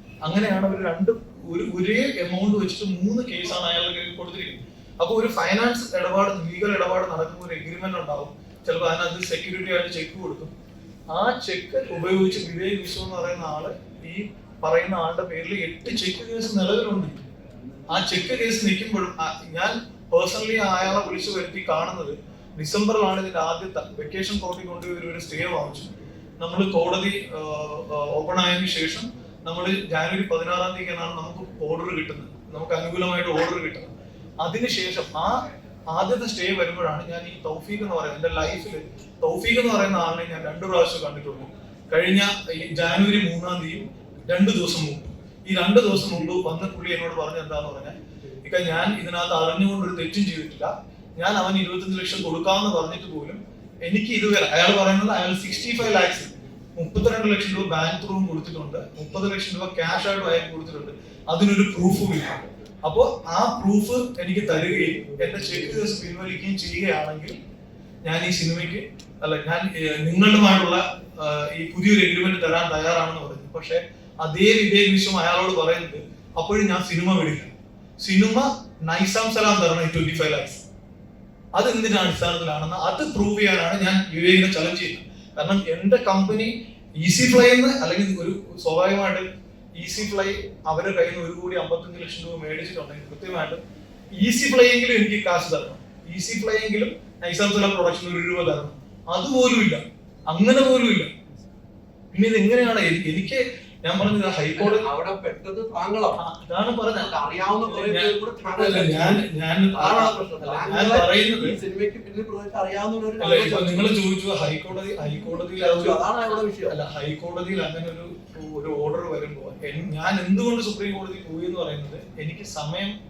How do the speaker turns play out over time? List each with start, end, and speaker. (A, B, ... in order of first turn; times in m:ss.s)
0:00.2-0:10.5 A
0:11.1-0:17.2 A
0:17.9-1:07.4 A
1:08.0-1:20.6 A
1:21.6-1:29.2 A
1:29.8-1:33.6 A
1:34.2-1:41.1 A
1:42.1-1:44.9 A
1:44.6-1:46.2 B
1:46.2-1:51.6 A
1:47.0-1:53.9 B
1:53.2-1:56.0 A
1:55.6-1:56.8 B
1:56.7-2:03.0 A